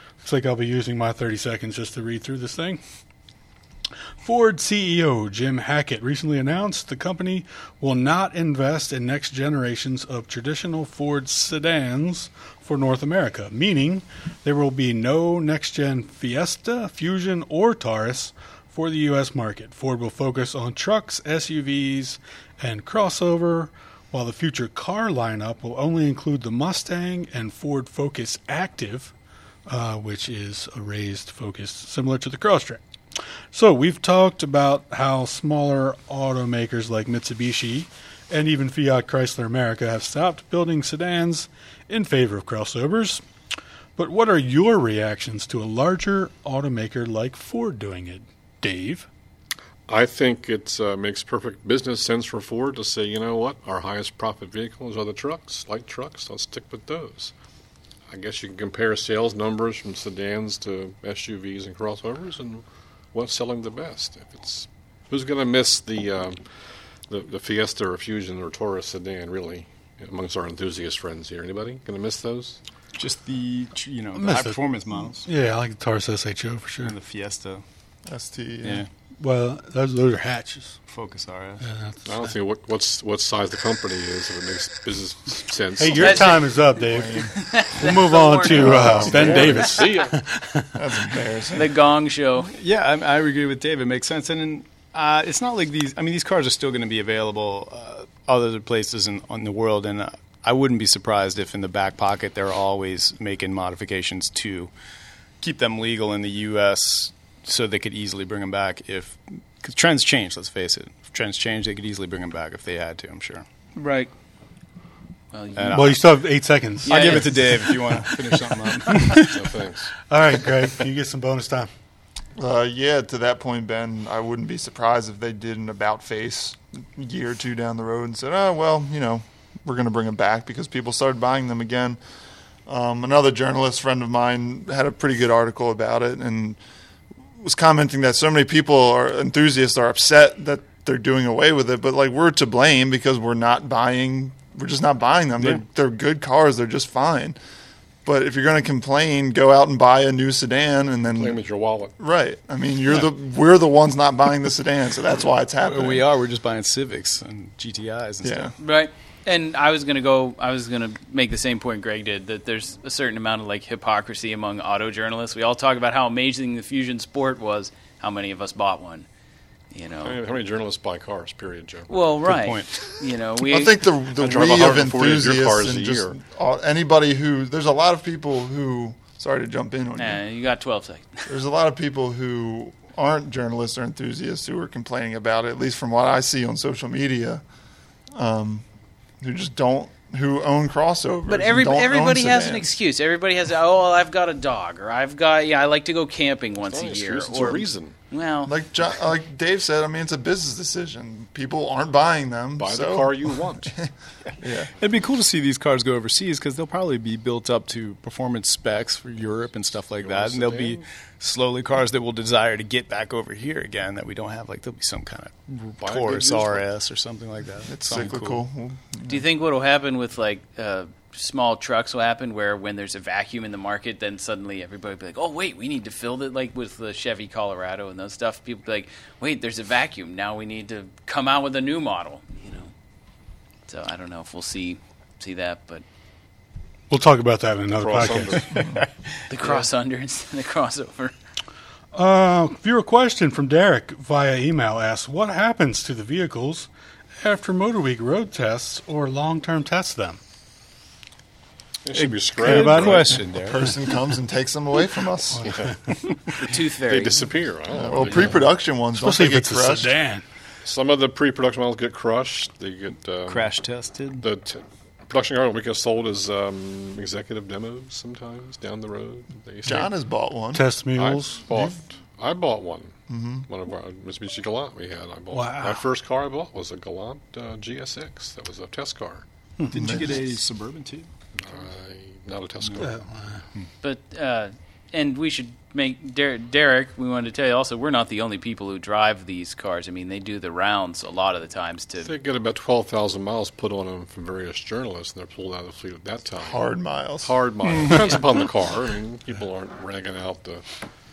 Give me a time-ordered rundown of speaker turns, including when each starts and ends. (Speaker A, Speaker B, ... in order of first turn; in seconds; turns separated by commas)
Speaker A: 0.2-2.8, Speaker A: 4.2-29.1, Speaker A: 29.7-32.8, Speaker A: 33.5-43.2, Speaker A: 44.0-49.1, Speaker B: 49.9-57.3, Speaker B: 58.1-66.4, Speaker B: 67.1-72.6, Speaker C: 73.0-75.3, Speaker A: 74.1-76.9, Speaker C: 76.8-77.6, Speaker D: 78.1-78.9, Speaker C: 78.6-78.9, Speaker A: 79.2-80.8, Speaker C: 80.9-81.6, Speaker A: 81.6-82.1, Speaker B: 82.0-86.3, Speaker A: 85.8-90.8, Speaker E: 85.9-86.4, Speaker D: 86.7-87.3, Speaker E: 87.3-89.4, Speaker D: 88.6-89.5, Speaker B: 88.8-90.1, Speaker D: 90.7-91.7, Speaker E: 91.5-92.5, Speaker C: 92.5-104.7, Speaker C: 105.4-113.5, Speaker E: 113.8-114.1, Speaker E: 115.3-115.9, Speaker C: 115.6-116.1, Speaker A: 115.7-118.3, Speaker E: 116.9-117.4, Speaker C: 116.9-119.6, Speaker B: 119.1-119.9, Speaker A: 120.1-121.7, Speaker D: 122.4-132.0, Speaker D: 132.7-136.6, Speaker D: 137.4-147.4, Speaker D: 148.0-151.4, Speaker B: 151.1-151.9, Speaker D: 152.0-156.1, Speaker C: 155.6-158.5, Speaker D: 158.2-158.5, Speaker E: 158.6-169.1, Speaker E: 169.7-170.2, Speaker B: 170.0-171.9, Speaker E: 171.9-173.8, Speaker C: 172.2-172.8, Speaker D: 173.5-180.2, Speaker B: 174.2-176.2, Speaker E: 180.0-181.2, Speaker D: 181.3-187.4, Speaker D: 188.1-188.6, Speaker D: 189.2-192.8, Speaker E: 191.3-198.5, Speaker B: 196.6-197.9, Speaker D: 198.4-203.9, Speaker B: 202.6-203.8, Speaker D: 204.4-204.7, Speaker C: 204.8-218.4, Speaker B: 210.0-210.8, Speaker B: 215.8-216.7, Speaker D: 217.7-219.2, Speaker E: 219.1-232.7, Speaker E: 233.7-235.8, Speaker A: 236.9-238.7, Speaker B: 237.8-238.7, Speaker E: 239.3-241.1, Speaker A: 241.9-246.7, Speaker A: 247.2-250.2, Speaker B: 251.8-253.2, Speaker C: 251.9-253.8, Speaker A: 252.4-253.2, Speaker D: 253.4-255.5, Speaker B: 255.4-255.7, Speaker B: 256.4-258.4, Speaker E: 256.4-257.3, Speaker D: 257.7-259.9, Speaker A: 258.9-260.2, Speaker B: 260.6-263.5, Speaker C: 263.3-264.2, Speaker B: 264.2-269.9, Speaker D: 269.6-270.6, Speaker A: 270.5-271.5, Speaker B: 270.9-279.2, Speaker D: 273.1-273.4, Speaker A: 275.3-275.9, Speaker A: 279.6-279.9, Speaker C: 279.7-281.1, Speaker D: 279.7-280.1, Speaker B: 281.4-283.0, Speaker A: 282.8-283.4, Speaker E: 283.8-292.1, Speaker B: 292.0-296.6, Speaker D: 296.4-297.3, Speaker B: 297.2-300.6, Speaker C: 297.6-298.2